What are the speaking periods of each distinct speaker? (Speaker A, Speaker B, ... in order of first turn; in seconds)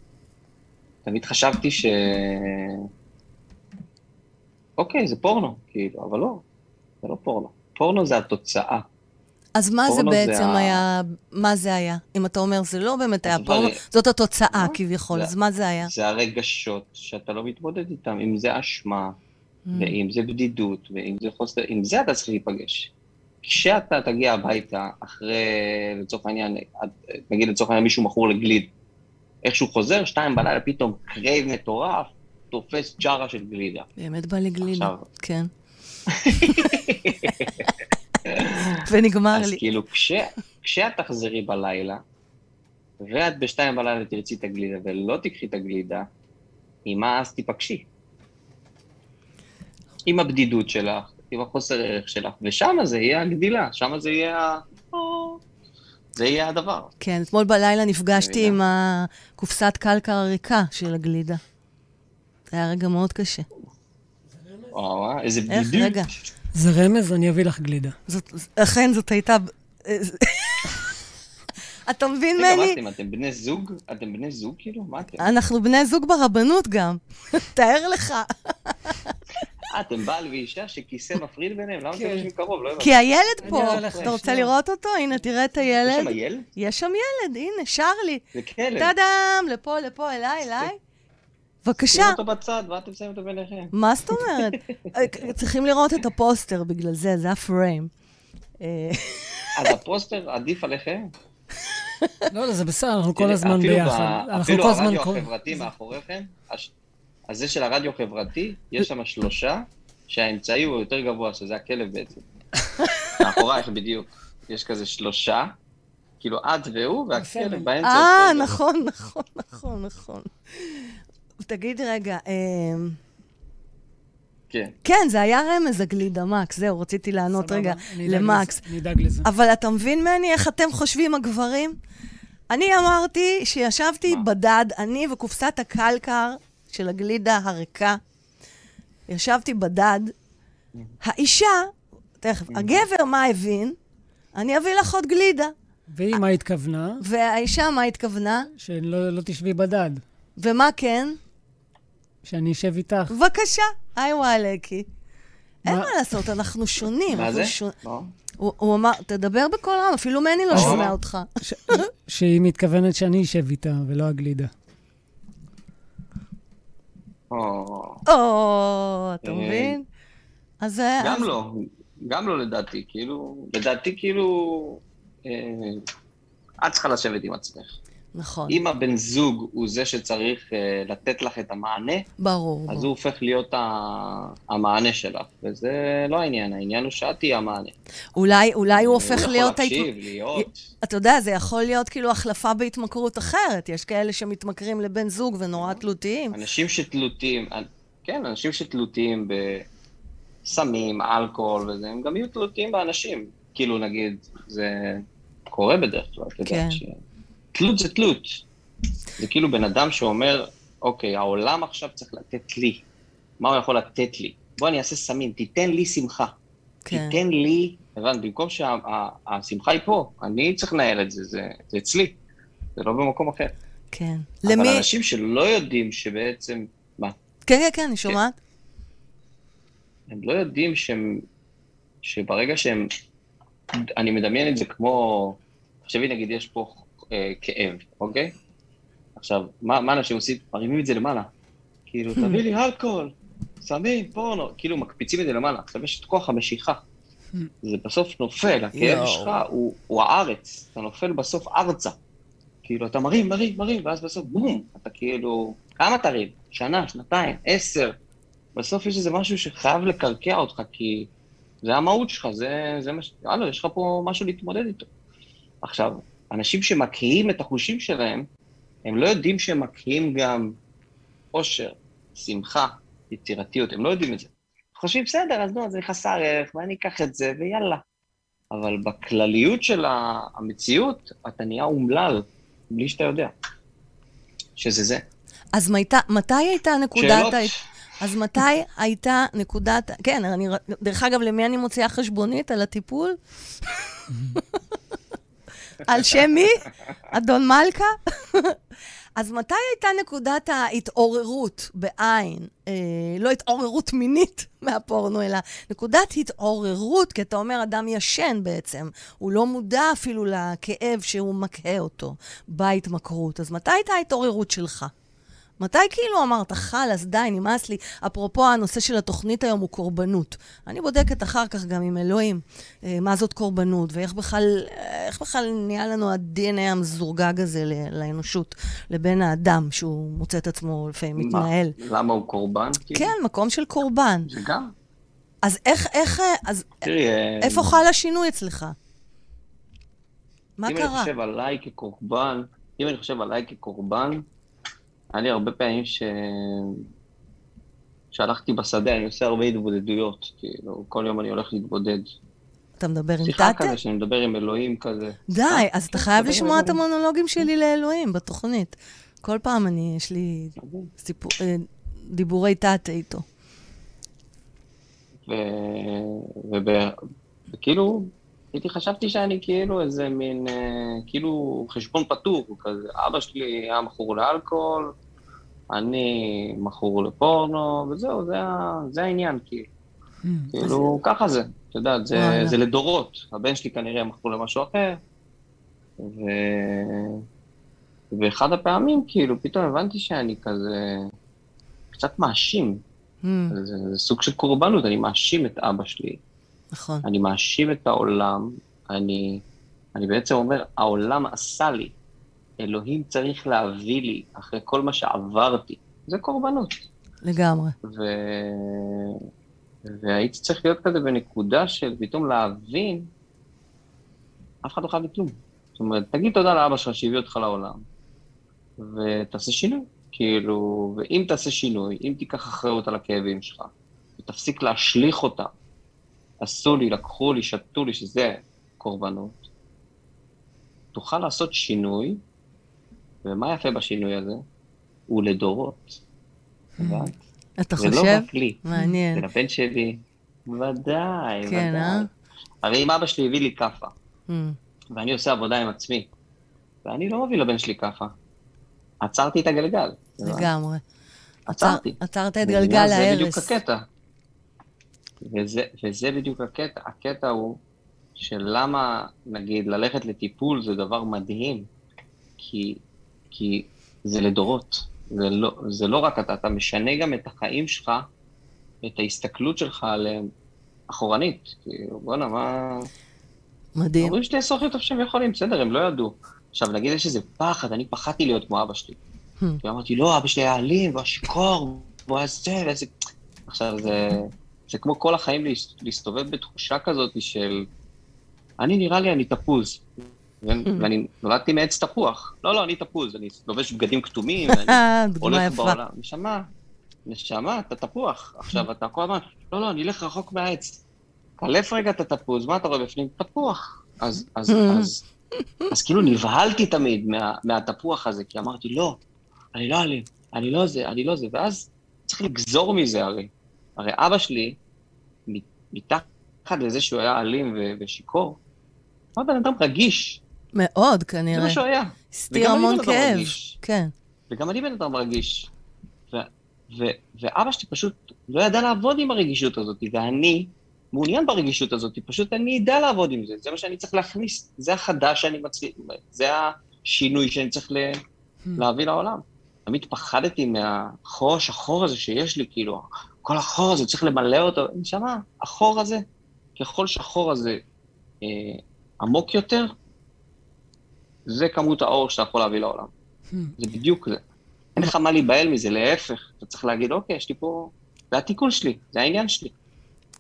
Speaker A: 1.1-2.9, 4.8-6.4, 7.0-8.8, 9.9-10.8, 13.2-13.8, 14.5-19.2, 19.8-22.9, 23.4-28.7, 29.4-33.9, 34.6-35.1, 36.1-37.7, 38.3-42.0, 43.0-46.1, 46.9-47.9, 50.1-55.4, 56.2-56.9, 58.1-58.6, 64.7-66.3, 72.4-75.3, 79.7-84.1, 85.9-86.5, 88.3-88.9, 91.8-93.7, 94.5-94.7, 99.6-101.1, 103.2-106.7, 107.3-112.2, 113.2-115.5, 116.2-118.6, 124.5-124.8, 142.5-142.8, 157.1-158.1, 160.5-160.9, 167.3-168.0, 169.2-169.8, 171.0-171.5, 172.1-175.8, 176.6-177.8, 178.5-182.1, 182.7-187.7, 188.7-190.6, 196.3-199.7, 200.4-207.0, 207.5-208.4, 209.2-212.8, 213.4-216.3, 216.9-222.2, 222.8-223.5, 224.5-227.2, 230.1-231.2, 232.0-232.9, 234.0-238.3, 239.2-241.3, 241.9-243.1, 243.7-246.8, 247.6-252.0, 252.7-257.9, 258.6-261.1, 261.6-264.9, 265.6-268.3, 268.9-270.5, 271.3-277.8, 278.5-283.3, 284.6-285.0, 286.9-287.6, 331.2-333.1, 334.3-334.7, 336.8-337.8, 340.7-344.2, 345.1-346.9, 348.1-352.1, 353.2-356.8, 360.6-360.9, 365.3-366.9, 367.5-374.9, 375.7-379.7, 380.5-385.0, 386.0-387.2, 388.1-391.1, 391.9-392.8, 393.5-396.2, 397.0-399.4, 399.9-401.9, 402.6-406.8, 407.8-409.2, 409.9-413.1, 414.6-417.8, 418.8-425.5, 426.4-429.4, 430.9-432.2, 433.2-434.4, 435.1-436.0, 436.8-437.1, 437.8-438.6, 439.1-442.1, 442.6-443.9, 444.9-446.1, 446.9-448.1, 449.0-450.5, 451.5-453.8, 455.2-457.6, 458.2-461.7, 462.4-462.8, 463.3-468.1, 468.8-470.3, 470.9-472.9, 474.0-479.0, 479.6-482.9, 483.5-487.7, 488.6-489.9, 490.4-496.4, 497.1-500.8, 501.4-505.0, 505.7-509.0, 509.6-514.6, 515.3-518.4, 519.2-520.2, 521.3-523.6, 524.3-525.5, 526.1-538.0, 538.6-546.0, 546.6-547.6, 548.2-549.7, 551.3-552.9, 553.6-554.2, 554.8-559.5
Speaker B: 9.6-15.9, 19.7-20.0, 34.0-35.5, 36.3-36.9, 38.8-39.6, 57.0-61.4, 62.5-63.5, 65.5-66.1, 68.1-70.8, 71.9-72.8, 75.2-79.2, 82.8-88.2, 88.8-90.8, 91.7-92.2, 93.7-97.9, 98.6-99.5, 112.8-113.2, 117.8-123.0, 124.8-128.6, 129.2-131.8, 132.5-138.0, 139.1-140.1, 141.0-141.7, 142.2-143.8, 144.4-145.5, 147.0-148.5, 150.4-151.2, 153.1-154.9, 155.7-157.7, 158.4-161.8, 168.1-169.8, 170.6-171.3, 178.2-178.6, 182.2-182.9, 188.2-196.4, 206.4-206.8, 216.9-217.2, 223.9-224.9, 227.5-228.4, 248.8-249.4, 285.6-293.2, 295.8-298.6, 299.2-314.9, 315.6-331.8, 332.9-334.3, 335.4-336.9, 337.4-338.8, 340.6-341.1, 352.8-353.8, 355.3-363.2, 382.2-382.6, 393.2-393.6, 396.7-397.1, 407.2-407.7, 437.6-439.2, 441.5-442.1, 444.3-444.6, 450.2-450.8, 451.5-453.5, 473.8-474.2, 494.5-495.8, 504.5-504.9, 520.5-521.6, 522.1-523.9
Speaker C: 66.5-68.0, 81.9-82.3, 83.4-84.5, 102.3-105.3, 117.1-117.7, 127.4-129.3, 145.9-147.0, 148.6-150.0, 152.2-153.1, 155.7-155.9, 160.5-160.8, 161.5-164.5, 380.2-380.5, 436.8-437.1